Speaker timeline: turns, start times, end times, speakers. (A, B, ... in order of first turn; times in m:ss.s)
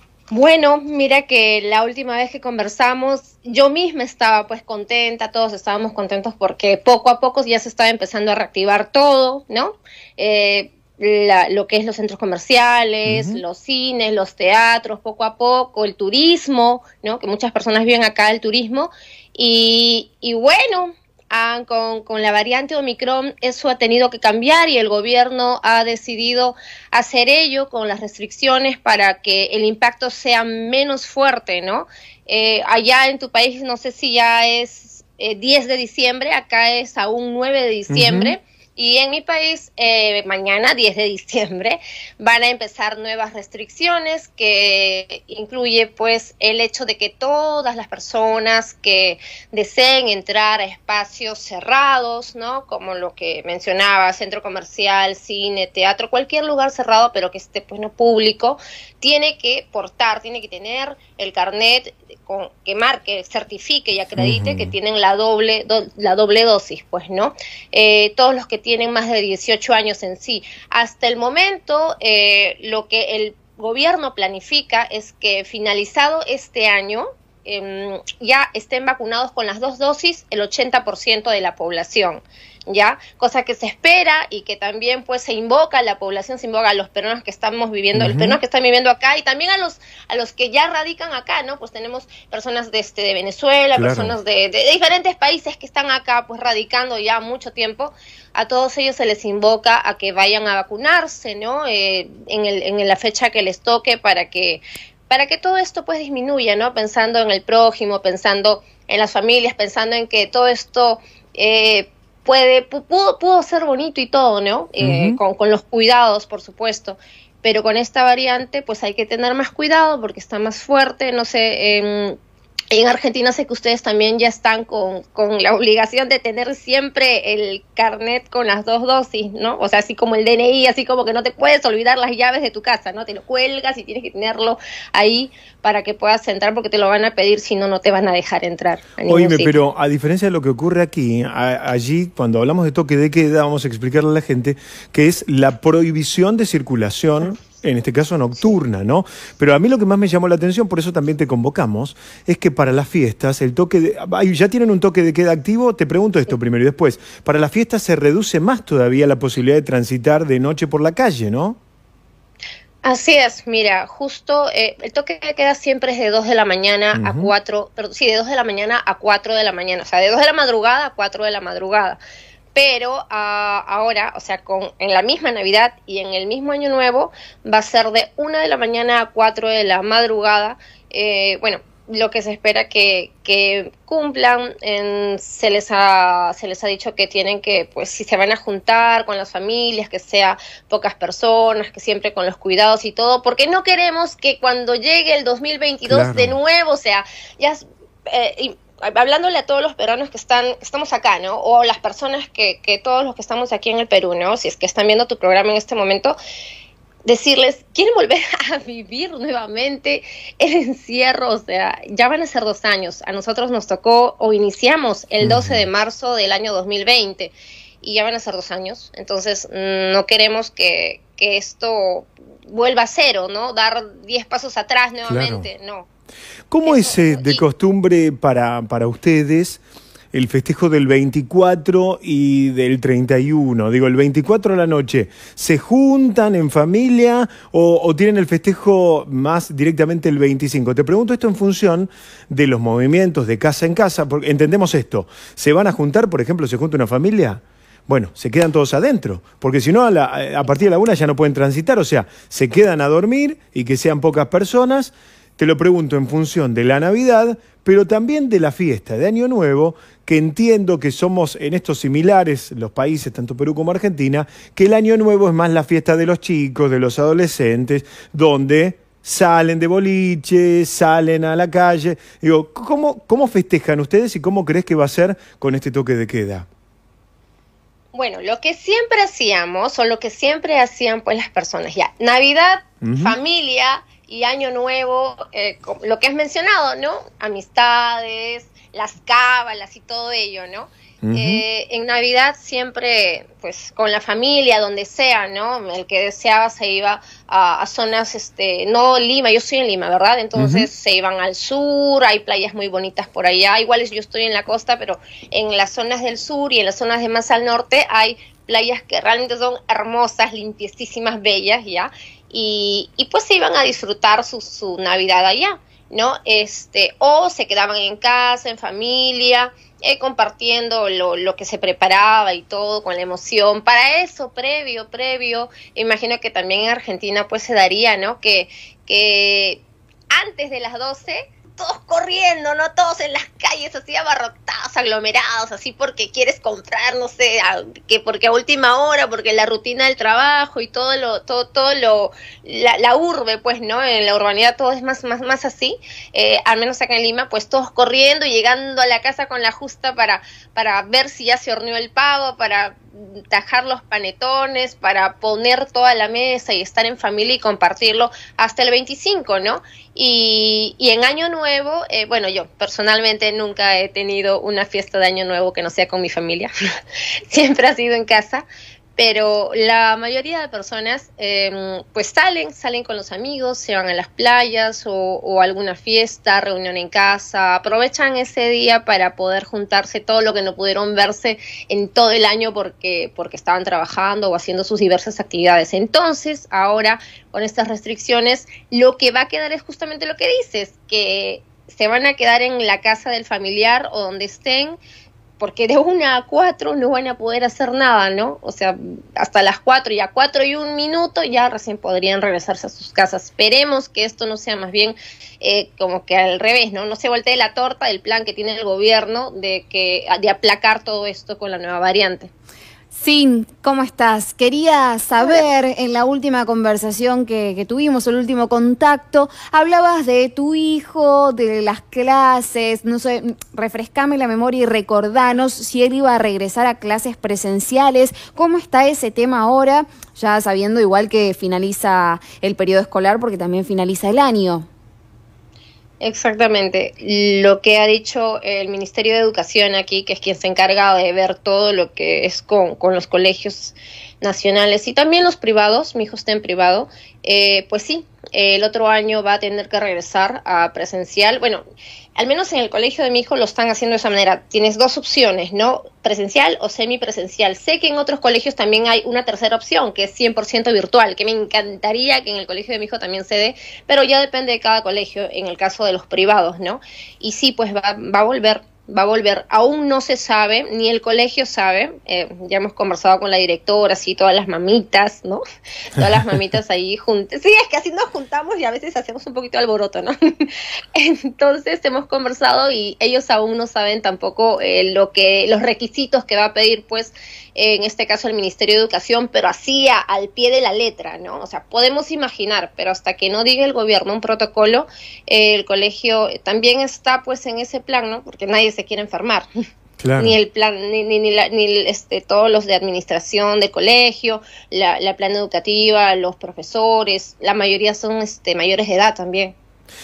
0:00.3-2:02.2 A
0:13.0-0:13.4 B
0:37.9-0:38.3 B
1:04.2-1:04.8 B
1:27.9-1:28.4 B
1:33.8-1:34.1 B
1:54.8-1:55.2 B
2:02.7-2:19.6 A
2:19.1-2:41.6 B
2:42.8-2:52.0 A
2:46.9-2:47.3 B
2:52.6-3:26.2 A
3:15.9-3:16.4 B
3:27.1-3:45.9 A
3:35.2-3:35.6 B
3:45.0-3:45.5 B
3:46.5-3:49.6 B
3:46.6-3:47.4 A
3:50.1-4:36.4 B
4:37.9-5:29.6 A
4:42.8-4:43.1 B
4:51.0-4:51.4 B
5:00.3-5:00.7 B
5:30.1-6:06.5 A
6:07.3-6:08.4 A
6:09.0-6:34.8 A
6:35.4-6:52.3 A
6:52.9-7:14.6 C
7:16.0-7:31.6 A
7:32.2-7:55.4 A
7:55.9-8:19.5 A
8:20.0-8:20.4 B
8:20.2-8:29.5 A